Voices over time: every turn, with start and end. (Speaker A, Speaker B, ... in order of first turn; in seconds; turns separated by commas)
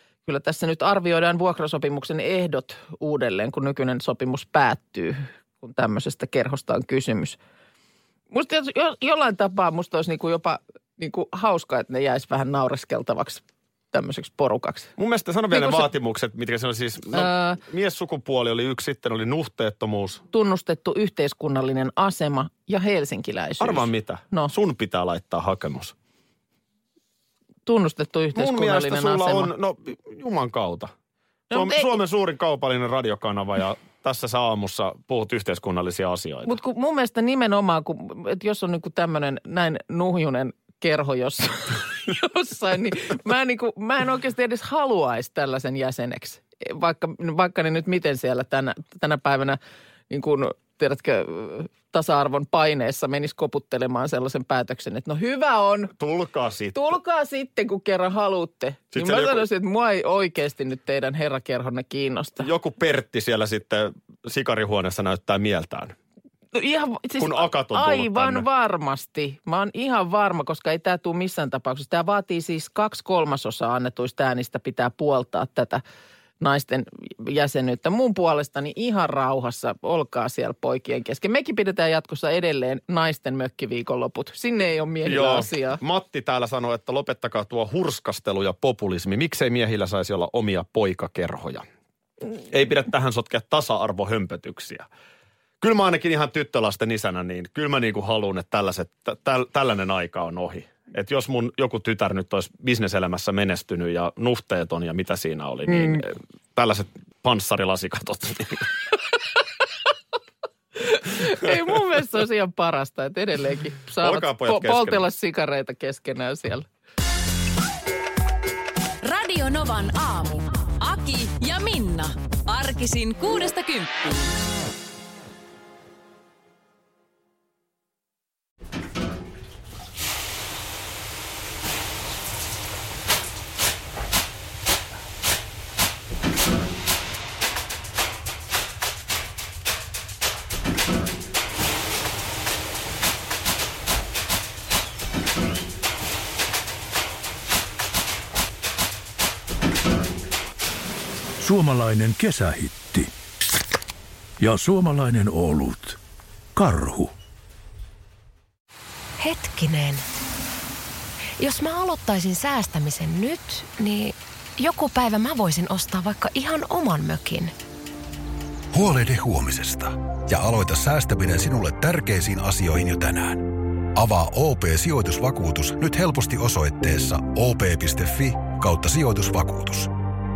Speaker A: 0.2-7.4, Speaker A: 8.3-14.9, Speaker B: 15.0-20.2, Speaker A: 15.5-15.9, Speaker A: 17.1-17.6, Speaker A: 20.3-24.5, Speaker B: 23.6-25.9, Speaker A: 27.6-29.5, Speaker B: 28.3-30.9, Speaker A: 31.5-31.9, Speaker B: 31.5-36.5, Speaker A: 36.5-49.6, Speaker A: 50.1-55.9, Speaker B: 56.0-56.9, Speaker A: 56.7-62.5, Speaker B: 58.9-59.4, Speaker B: 62.4-65.9, Speaker A: 66.5-75.8, Speaker B: 67.2-68.4, Speaker A: 76.4-85.8, Speaker B: 85.0-91.6, Speaker B: 92.5-94.9, Speaker B: 95.6-108.7, Speaker A: 110.8-116.7, Speaker B: 111.4-111.7, Speaker B: 114.0-115.0, Speaker C: 119.0-124.2, Speaker D: 151.4-153.1, Speaker D: 154.4-156.0, Speaker D: 156.6-157.1, Speaker E: 159.2-160.0, Speaker E: 161.4-167.5, Speaker F: 168.7-179.9